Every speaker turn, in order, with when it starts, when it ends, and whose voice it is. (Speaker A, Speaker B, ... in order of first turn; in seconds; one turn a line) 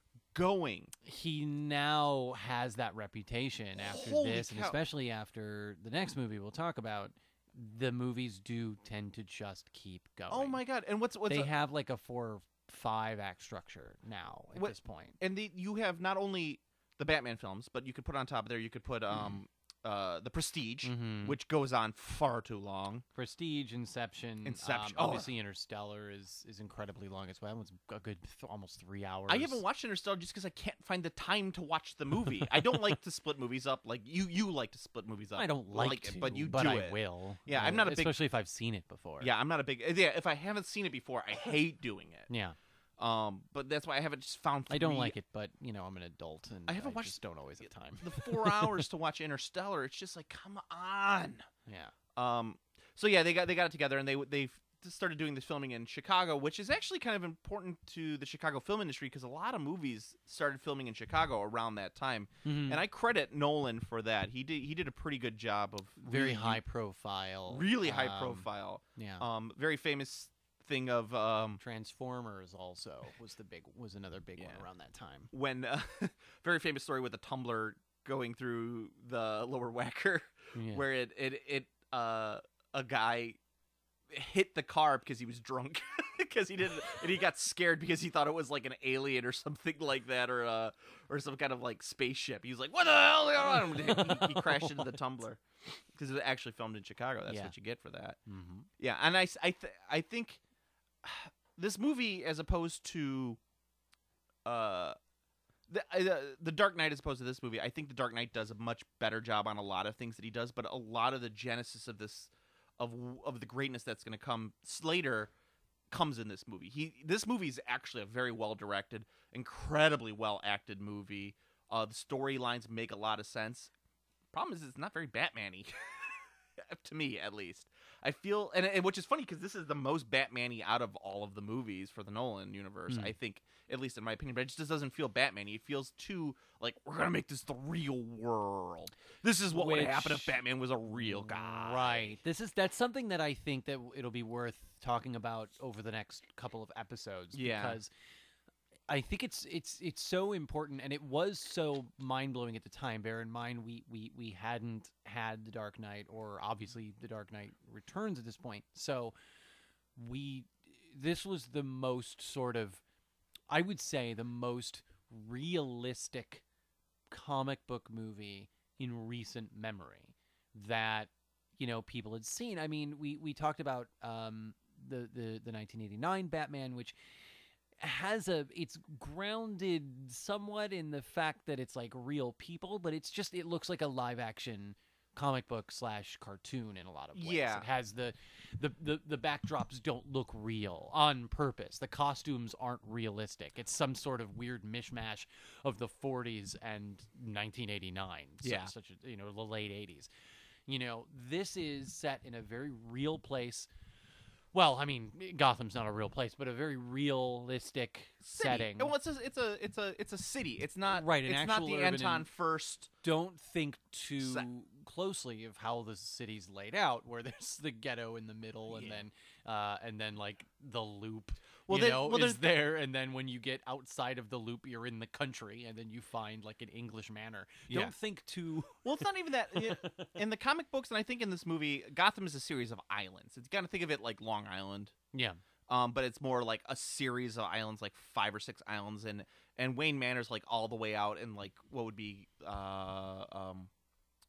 Speaker A: 0.3-0.9
Speaker B: 1.1-10.6
Speaker A: 3.8-4.8
Speaker A: 10.3-11.5
Speaker B: 11.3-15.2
Speaker A: 14.6-23.0
Speaker B: 20.8-21.4
Speaker B: 23.1-29.6
Speaker A: 24.4-25.3
Speaker A: 29.3-38.2
Speaker B: 35.4-39.3
Speaker A: 39.2-42.3
Speaker B: 42.3-42.6
Speaker A: 43.0-45.2
Speaker B: 44.7-48.9
Speaker A: 46.7-47.2
Speaker A: 48.0-51.5
Speaker B: 51.7-51.9
Speaker A: 52.1-66.6
Speaker B: 62.4-62.8
Speaker B: 66.0-69.3
Speaker A: 67.5-71.6
Speaker B: 71.6-75.3
Speaker A: 74.4-74.6
Speaker A: 75.3-83.4
Speaker B: 80.5-80.8
Speaker A: 84.1-95.4
Speaker B: 93.5-94.9
Speaker A: 95.9-98.2
Speaker B: 97.3-97.5
Speaker B: 98.3-98.7
Speaker A: 98.8-100.4
Speaker A: 101.0-103.4
Speaker A: 104.5-105.0
Speaker A: 105.7-115.3
Speaker A: 115.9-123.7
Speaker A: 124.3-142.2
Speaker B: 132.9-133.1
Speaker B: 139.5-140.4
Speaker B: 140.9-147.9
Speaker A: 147.3-147.8
Speaker B: 148.9-159.1
Speaker B: 160.0-162.8
Speaker B: 163.5-166.4
Speaker B: 167.1-177.0
Speaker B: 177.8-200.1
Speaker A: 187.2-187.7
Speaker A: 198.4-198.7
Speaker B: 200.7-203.7
Speaker B: 204.5-208.9
Speaker A: 208.2-212.9
Speaker B: 210.9-212.3
Speaker B: 213.0-230.2
Speaker A: 214.2-214.5
Speaker A: 218.7-219.0
Speaker A: 221.7-222.5
Speaker A: 227.7-227.9
Speaker A: 228.8-234.9
Speaker B: 235.1-235.4
Speaker A: 235.7-243.7